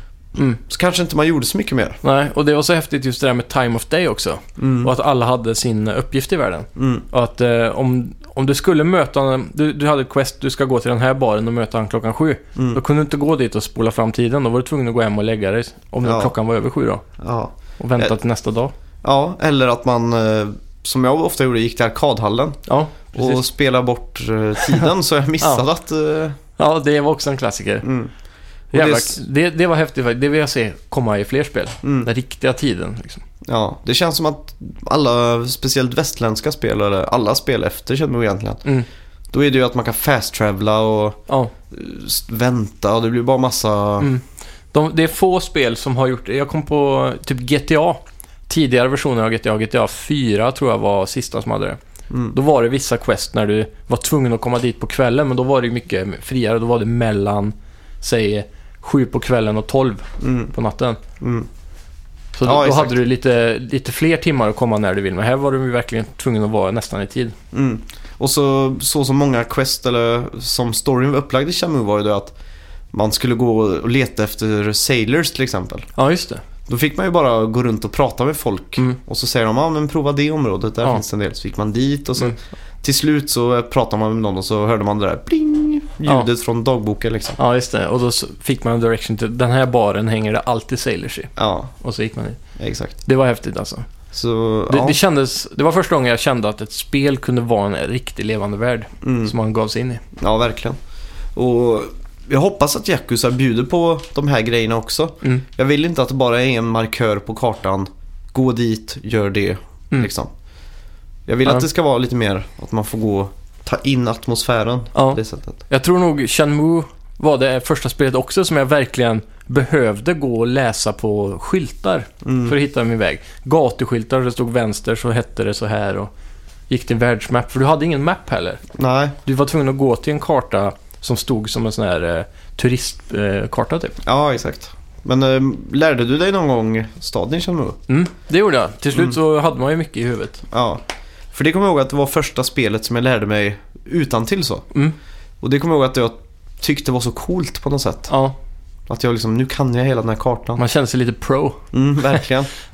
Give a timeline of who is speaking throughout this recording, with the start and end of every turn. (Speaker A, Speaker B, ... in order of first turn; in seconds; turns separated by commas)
Speaker A: 0.3-0.6, Speaker B: 0.7-2.0, Speaker A: 2.0-17.0, Speaker B: 4.6-4.9, Speaker B: 6.8-7.0, Speaker B: 12.6-12.8, Speaker B: 16.0-16.3, Speaker B: 17.2-18.1, Speaker A: 17.8-18.7, Speaker B: 19.0-22.6, Speaker A: 22.7-23.4, Speaker B: 23.1-26.4, Speaker A: 26.6-27.9, Speaker B: 27.8-28.1, Speaker B: 28.7-29.2, Speaker A: 28.7-33.2, Speaker B: 31.8-32.1, Speaker B: 33.5-38.6, Speaker B: 39.3-41.2, Speaker B: 41.7-44.1, Speaker A: 44.0-51.8, Speaker B: 52.1-52.4, Speaker A: 52.3-61.0, Speaker B: 60.2-60.5, Speaker B: 61.2-61.5, Speaker A: 62.4-67.4, Speaker B: 62.4-63.0, Speaker B: 67.5-72.3, Speaker B: 72.9-75.9, Speaker A: 76.0-76.4, Speaker B: 76.7-87.4, Speaker A: 87.4-92.4, Speaker B: 91.4-91.7, Speaker B: 92.6-93.0, Speaker A: 93.0-93.9, Speaker B: 94.1-95.0, Speaker A: 94.7-100.0, Speaker B: 99.0-99.3, Speaker B: 100.2-100.8, Speaker B: 101.3-110.3, Speaker B: 111.3-115.6, Speaker A: 115.0-126.1, Speaker B: 122.2-122.6, Speaker A: 126.7-128.6, Speaker B: 128.8-129.2, Speaker A: 129.2-134.0, Speaker B: 134.0-137.8, Speaker A: 137.9-140.4, Speaker B: 140.5-140.8, Speaker B: 141.3-144.7, Speaker B: 145.4-148.1, Speaker A: 148.1-148.3, Speaker B: 148.9-150.6, Speaker A: 150.6-151.7, Speaker B: 151.7-152.5